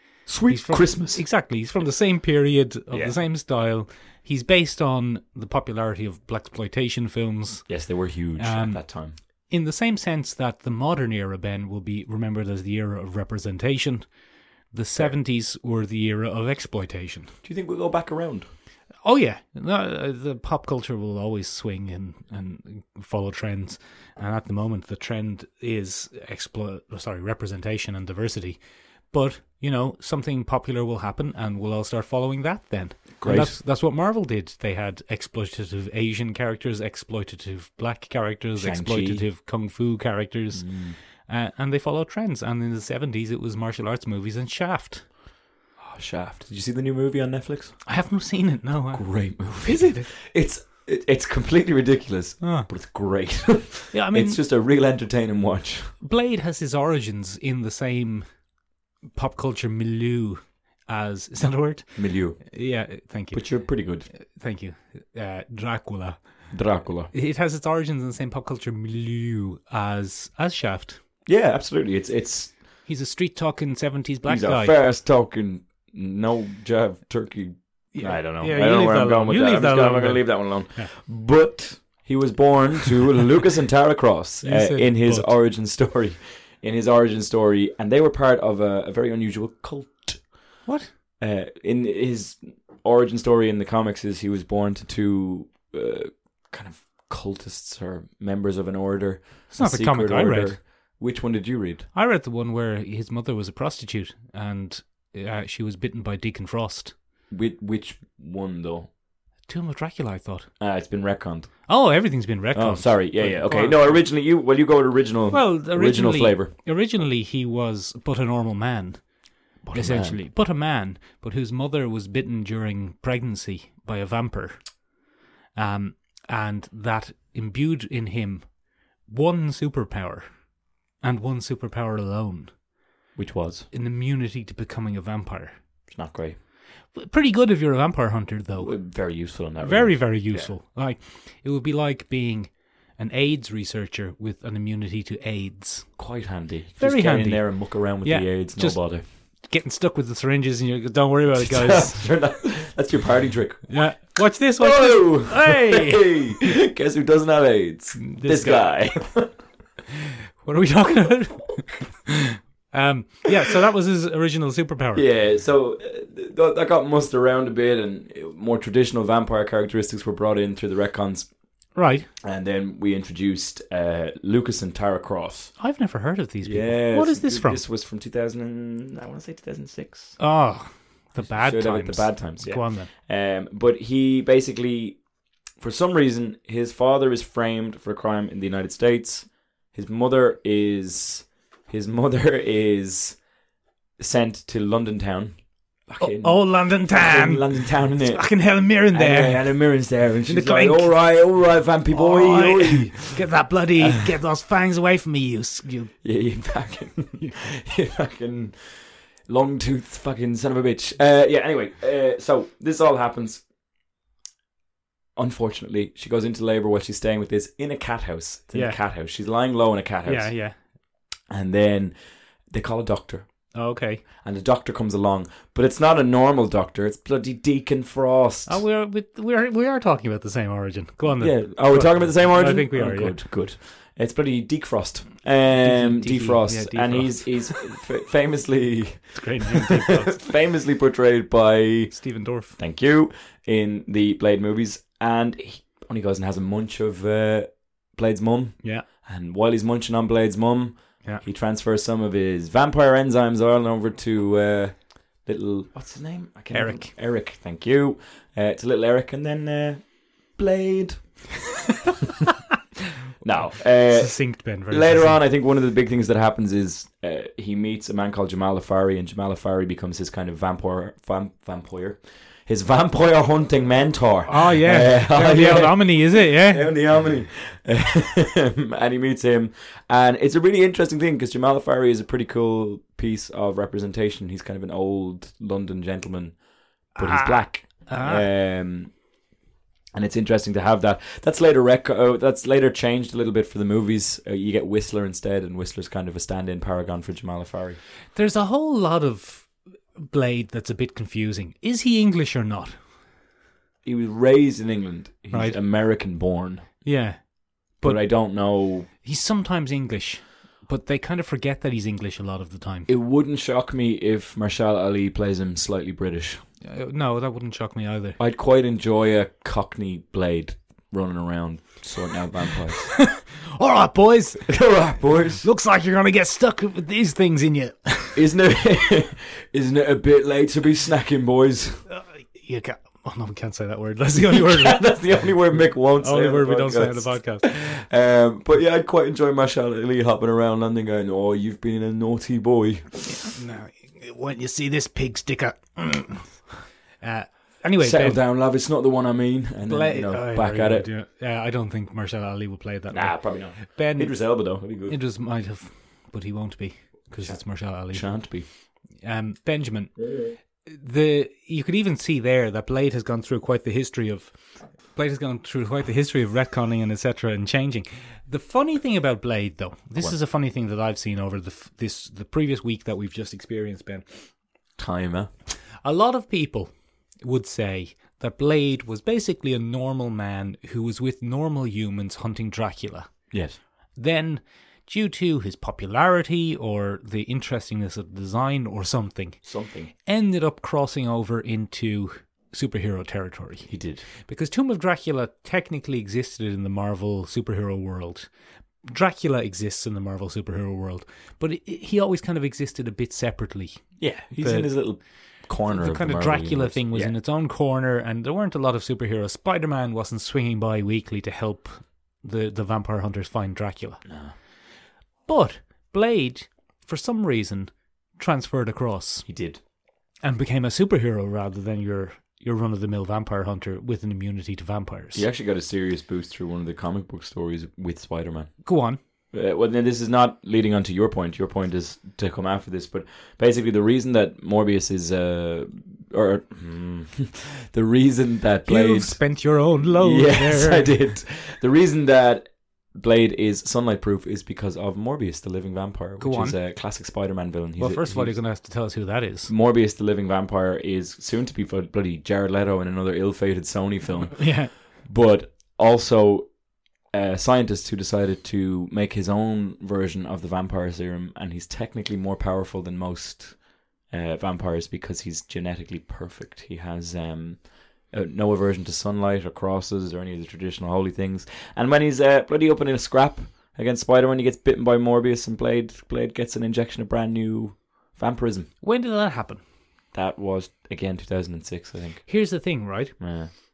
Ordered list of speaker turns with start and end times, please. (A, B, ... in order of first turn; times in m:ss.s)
0:00.3-0:01.3 A
0:00.5-0:14.1 B
0:02.9-0:03.2 A
0:07.7-0:09.2 A
0:14.7-0:17.3 B
0:17.4-0:18.5 A
0:19.0-0:45.1 B
0:33.2-0:33.6 A
0:38.6-0:39.3 A
0:40.5-0:41.0 A
0:45.8-0:47.8 A
0:47.8-0:50.1 B
0:48.9-0:55.9 A
0:52.4-0:52.7 B
0:53.9-0:54.4 B
0:56.0-0:58.3 B
0:59.1-1:11.0 B
1:02.0-1:02.6 A
1:03.3-1:04.1 A
1:06.5-1:07.1 A
1:11.3-1:12.6 A
1:12.8-1:14.8 B
1:14.3-1:30.4 A
1:17.9-1:20.9 B
1:24.4-1:25.3 B
1:30.6-1:30.9 B
1:31.2-1:41.9 A
1:39.5-1:40.6 B
1:41.9-1:47.0 B
1:47.3-1:48.9 A
1:49.5-1:50.5 B
1:50.6-1:51.7 A
1:51.7-1:54.1 B
1:52.5-1:56.5 A
1:55.3-2:04.8 B
1:59.6-2:00.2 A
2:05.6-2:10.5 B
2:11.0-2:12.6 B
2:13.2-2:13.7 A
2:13.7-2:15.5 B
2:15.9-2:16.4 A
2:16.9-2:18.9 B
2:18.6-2:20.6 A
2:19.6-2:26.0 B
2:26.0-2:29.0 A
2:26.8-2:32.0 B
2:31.3-2:33.9 A
2:33.7-2:36.3 B
2:34.6-2:39.4 A
2:38.0-2:39.1 B
2:40.4-2:42.1 B
2:42.7-2:45.0 B
2:45.0-2:55.6 A
2:51.8-2:52.1 B
2:55.6-2:57.6 B
2:56.4-3:00.2 A
3:00.2-3:02.9 B
3:01.2-3:05.0 A
3:05.6-3:13.2 A
3:14.0-3:23.2 A
3:16.0-3:19.7 B
3:20.3-3:21.1 B
3:21.9-3:26.0 B
3:26.0-3:33.4 A
3:35.2-3:40.3 A
3:38.5-3:38.8 B
3:40.0-3:40.6 B
3:41.3-3:42.0 A
3:42.5-3:43.3 A
3:43.5-3:44.0 B
3:44.2-3:48.6 A
3:48.5-3:53.2 B
3:51.2-4:21.3 A
3:55.6-3:57.6 B
3:59.1-4:00.2 B
4:01.9-4:02.6 B
4:16.5-4:16.9 B
4:23.2-4:46.4 A
4:23.9-4:25.2 B
4:34.3-4:36.7 B
4:47.0-4:48.3 B
4:47.0-4:49.0 A
4:49.9-4:57.8 A
4:58.2-5:02.8 B
5:03.8-5:06.8 A
5:05.3-5:05.6 B
5:06.8-5:12.9 B
5:07.8-5:08.9 A
5:12.9-5:16.4 A
5:16.6-5:18.2 B
5:18.2-5:23.1 A
5:22.9-5:24.6 B
5:24.5-5:25.5 A
5:25.4-5:28.2 B
5:28.2-5:31.8 A
5:31.9-5:35.0 B
5:34.2-5:43.2 A
5:36.0-5:37.5 B
5:43.3-5:48.2 B
5:47.8-5:50.9 A
5:49.7-5:58.3 B
5:52.9-5:55.0 A
5:57.2-5:58.5 A
5:59.0-6:00.1 B
6:00.0-6:00.4 A
6:00.6-6:14.0 B
6:14.8-6:15.3 A
6:15.8-6:16.7 B
6:17.2-6:23.3 B
6:23.3-6:23.6 A
6:24.0-6:33.7 B
6:29.4-6:29.9 A
6:33.7-6:34.0 A
6:34.2-6:38.3 B
6:38.9-6:54.0 B
6:44.0-6:47.2 A
6:54.0-6:54.3 A
6:55.3-6:59.3 B
6:59.3-6:59.6 A
7:00.2-7:05.2 B
7:05.1-7:08.7 A
7:08.6-7:09.0 B
7:09.3-7:28.5 A
7:18.7-7:21.0 B
7:26.2-7:26.6 B
7:27.8-7:29.5 B
7:29.5-7:58.7 A
7:34.4-7:34.7 B
7:58.8-7:59.6 B
8:00.1-8:02.3 A
8:02.3-8:03.2 B
8:03.2-8:03.5 A